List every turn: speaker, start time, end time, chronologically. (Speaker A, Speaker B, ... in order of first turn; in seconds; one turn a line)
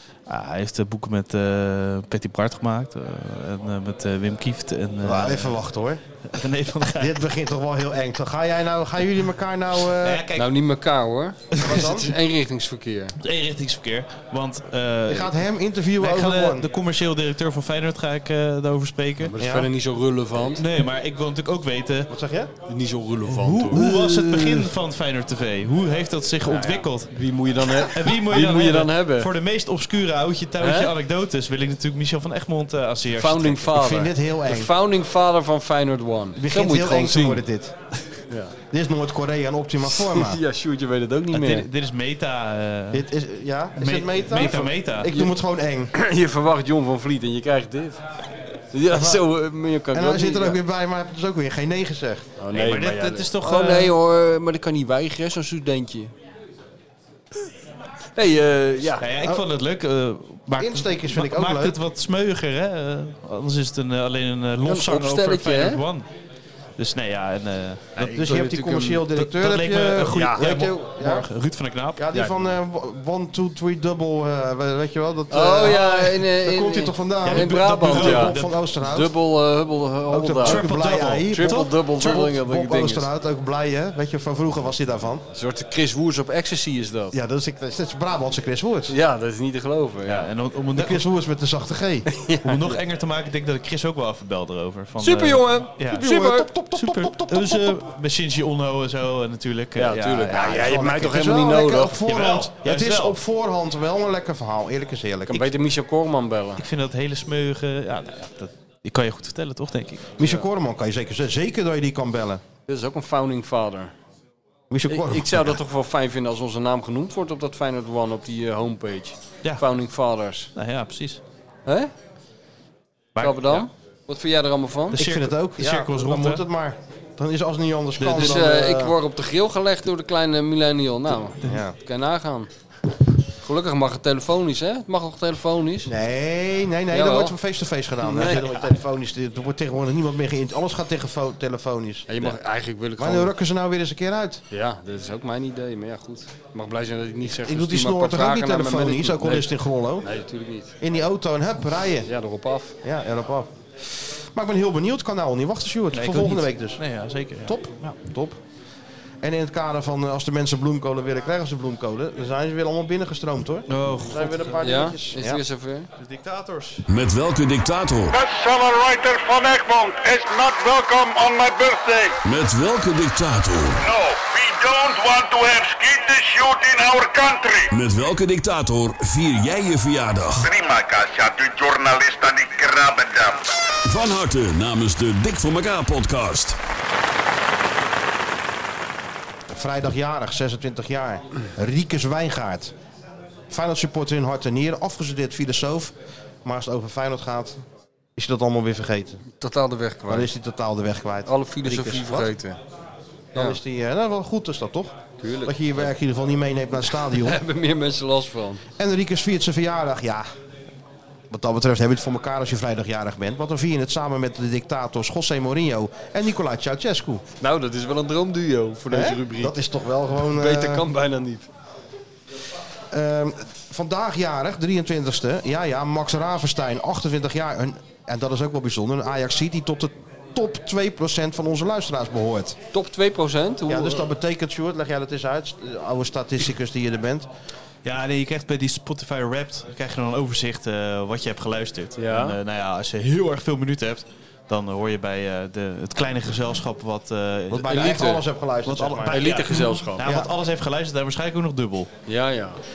Speaker A: 0.3-5.6
Speaker B: 5.0-6.0
Speaker A: 6.3-7.2
Speaker B: 7.0-10.2
Speaker A: 9.8-10.5
Speaker C: 10.3-13.1
Speaker B: 11.6-12.1
Speaker A: 13.2-15.4
Speaker B: 15.1-16.7
Speaker A: 16.0-19.3
Speaker C: 19.2-20.6
Speaker B: 19.4-19.7
Speaker A: 20.5-22.1
Speaker B: 22.1-22.5
Speaker C: 22.7-23.9
Speaker A: 23.3-27.1
Speaker B: 23.7-24.7
Speaker C: 26.4-29.3
Speaker A: 27.7-33.7
Speaker C: 30.6-30.9
Speaker C: 33.2-37.4
Speaker B: 33.7-34.7
Speaker B: 36.4-37.7
Speaker C: 38.3-38.5
Speaker B: 38.7-40.4
Speaker C: 39.9-41.7
Speaker A: 41.3-43.0
Speaker B: 42.9-45.9
Speaker A: 43.8-45.1
Speaker C: 44.4-45.3
Speaker C: 45.9-48.0
Speaker C: 48.7-50.6
Speaker B: 48.9-49.2
Speaker B: 49.9-52.3
Speaker C: 52.4-56.1
Speaker A: 52.5-53.9
Speaker C: 58.1-59.0
Speaker A: 59.0-66.0
Speaker B: 60.6-61.8
Speaker C: 64.6-65.8
Speaker A: 66.8-68.3
Speaker C: 68.0-69.0
Speaker B: 68.0-71.3
Speaker A: 69.1-72.1
Speaker C: 70.1-70.4
Speaker B: 72.0-79.1
Speaker C: 75.3-80.7
Speaker A: 77.2-78.5
Speaker B: 80.1-85.2
Speaker A: 80.4-81.7
Speaker C: 81.3-83.1
Speaker C: 85.3-87.2
Speaker B: 87.1-88.9
Speaker C: 88.9-90.3
Speaker A: 90.1-91.0
Speaker B: 90.7-92.1
Speaker C: 92.1-92.8
Speaker A: 92.4-96.1
Speaker C: 95.0-96.5
Speaker B: 95.9-97.8
Speaker A: 96.7-100.8
Speaker C: 99.8-102.0
Speaker B: 100.3-105.5
Speaker A: 102.0-103.2
Speaker C: 105.3-106.6
Speaker A: 106.6-110.2
Speaker B: 110.2-112.4
Speaker C: 112.7-113.9
Speaker B: 114.7-115.6
Speaker C: 114.9-120.5
Speaker A: 120.5-121.2
Speaker C: 121.7-121.9
Speaker A: 123.1-123.7
Speaker C: 123.2-125.0
Speaker A: 124.9-126.4
Speaker B: 125.0-128.9
Speaker A: 128.0-128.3
Speaker C: 128.1-132.5
Speaker B: 131.4-131.7
Speaker C: 133.4-135.9
Speaker B: 135.8-142.4
Speaker C: 136.9-137.4
Speaker C: 138.0-138.6
Speaker C: 142.1-143.3
Speaker B: 143.0-144.4
Speaker C: 144.5-150.7
Speaker B: 147.3-150.1
Speaker B: 150.8-152.1
Speaker C: 152.1-152.7
Speaker B: 152.8-156.8
Speaker A: 155.9-157.9
Speaker B: 157.4-158.4
Speaker B: 159.2-165.4
Speaker A: 163.7-164.6
Speaker C: 164.6-165.9
Speaker A: 166.0-166.8
Speaker D: 166.9-168.1
Speaker E: 168.1-172.2
Speaker D: 172.2-173.8
Speaker E: 173.8-177.7
Speaker D: 177.7-180.4
Speaker E: 180.4-183.4
Speaker D: 183.8-186.6
Speaker B: 189.5-192.7
Speaker B: 193.5-197.6
Speaker B: 198.2-199.2
Speaker C: 199.4-200.3
Speaker B: 200.1-202.3
Speaker C: 201.2-202.6
Speaker B: 203.3-207.4
Speaker C: 205.2-205.6
Speaker C: 206.9-208.6
Speaker B: 208.8-210.3
Speaker B: 211.3-217.2
Speaker C: 217.4-219.6
Speaker B: 218.9-220.9
Speaker C: 220.2-221.5
Speaker B: 222.9-232.6
Speaker C: 232.7-234.1
Speaker B: 233.7-237.3
Speaker A: 237.8-251.9
Speaker C: 242.0-242.4
Speaker B: 247.5-249.2
Speaker C: 247.6-248.2
Speaker C: 249.0-250.1
Speaker B: 250.0-250.3
Speaker C: 252.1-252.6